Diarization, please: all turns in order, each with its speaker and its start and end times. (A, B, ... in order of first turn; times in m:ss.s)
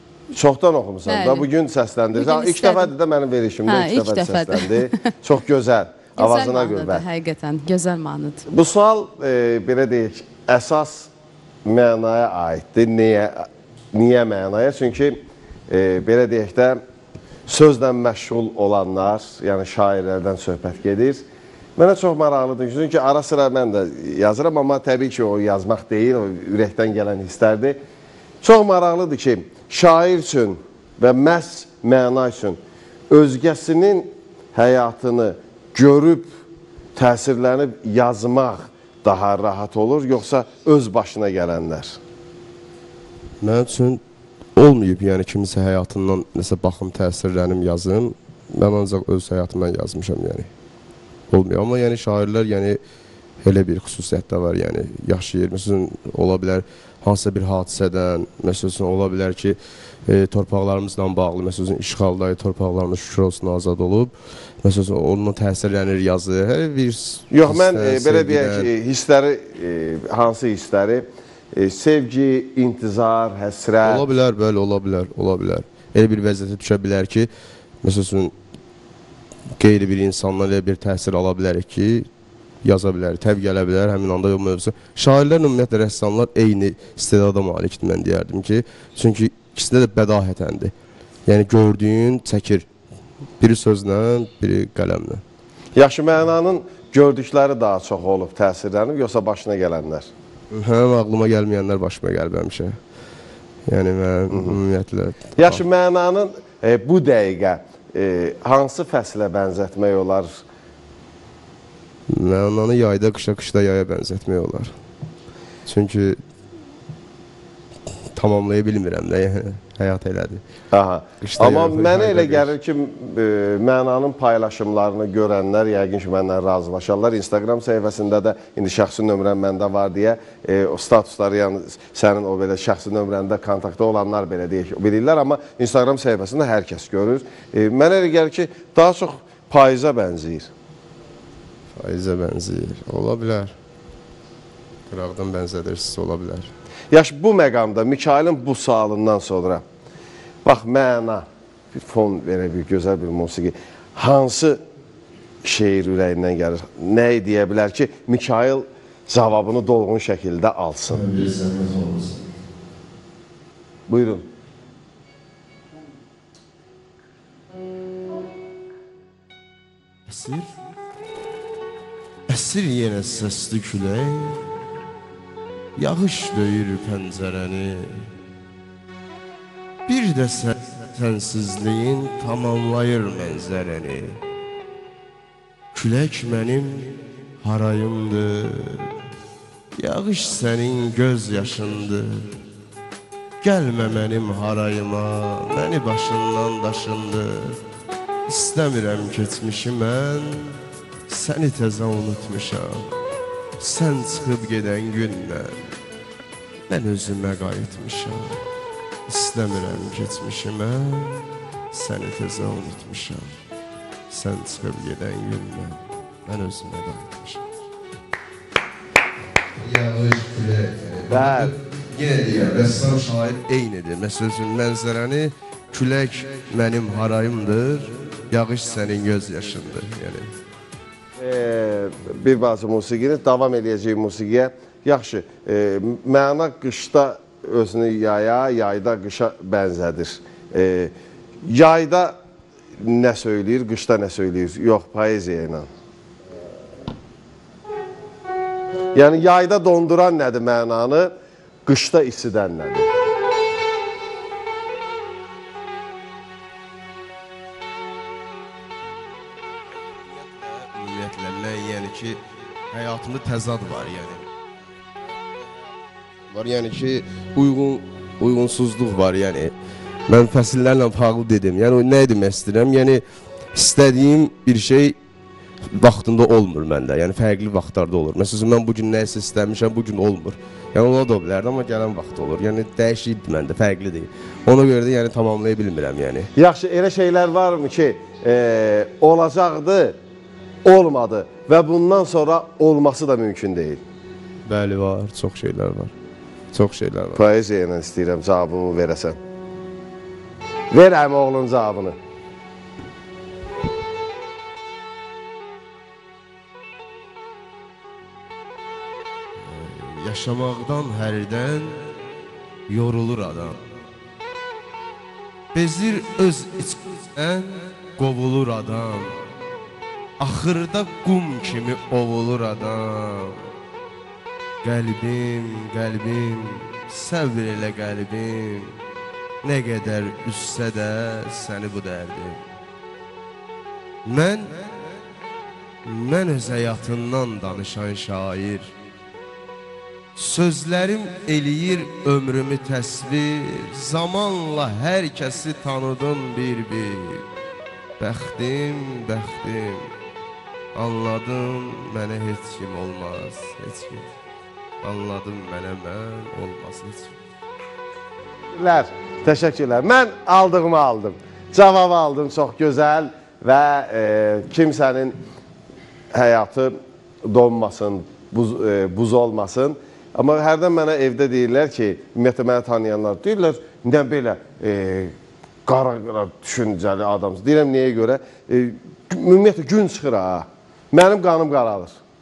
0:00.3-0:07.0 A
0:01.0-0:01.5 B
0:02.1-0:02.9 B
0:03.7-0:05.0 B
0:06.2-0:08.4 B
0:08.5-0:11.1 A
0:11.6-0:16.8 A
0:17.5-0:21.2 A
0:21.8-0:27.8 A
0:28.4-0:32.6 A
0:33.1-0:36.3 A
0:37.0-0:42.0 A
0:43.4-0:44.0 C
0:44.6-0:50.5 C
0:51.3-0:52.8 C
0:53.4-1:08.7 C
1:07.3-1:14.0 A
1:13.8-1:17.3 C
1:17.8-1:18.3 C
1:19.6-1:22.1 C
1:22.6-1:30.7 C
1:31.3-1:32.7 C
1:33.4-1:35.2 C
1:35.7-1:40.1 A
1:40.5-1:42.8 C
1:43.7-1:45.6 C
1:44.3-1:44.6 A
1:45.4-1:50.4 A
1:52.1-1:54.7 C
1:55.6-1:56.2 C
1:58.1-2:00.4 C
2:00.7-2:20.5 A
2:01.2-2:02.5 C
2:21.8-2:23.5 C
2:24.9-2:26.5 C
2:26.9-2:29.6 A
2:30.4-2:34.6 A
2:35.4-2:41.0 A
2:40.9-2:42.2 C
2:43.9-2:44.2 A
2:50.1-2:50.5 C
2:52.3-2:54.4 C
2:55.8-2:58.1 C
2:59.8-3:04.2 C
3:05.7-3:09.0 C
3:09.8-3:12.4 C
3:13.4-3:17.6 C
3:18.3-3:20.6 C
3:21.1-3:22.9 C
3:23.6-3:25.7 C
3:26.7-3:28.4 C
3:29.1-3:33.4 C
3:34.1-3:37.5 C
3:39.6-3:50.3 C
3:41.1-3:41.5 A
3:51.2-4:00.9 A
4:01.4-4:02.2 A
4:02.8-4:05.7 A
4:08.9-4:11.1 A
4:11.6-4:12.9 A
4:20.4-4:24.2 C
4:26.3-4:29.5 C
4:30.1-4:33.0 C
4:33.5-4:35.0 C
4:35.8-4:46.3 C
4:46.3-4:50.0 A
4:50.6-4:53.8 A
4:54.4-4:55.9 C
4:56.5-4:57.2 C
4:57.1-4:59.2 A
5:00.7-5:02.0 A
5:09.4-5:11.8 C
5:12.7-5:13.6 C
5:15.5-5:19.1 C
5:20.2-5:23.4 C
5:24.6-5:28.7 C
5:29.4-5:32.4 C
5:34.0-5:34.6 C
5:35.8-5:38.7 C
5:40.2-5:47.2 C
5:48.0-5:49.9 C
5:50.7-5:54.1 C
5:54.8-5:57.1 C
5:58.5-6:05.2 A
6:06.1-6:22.0 A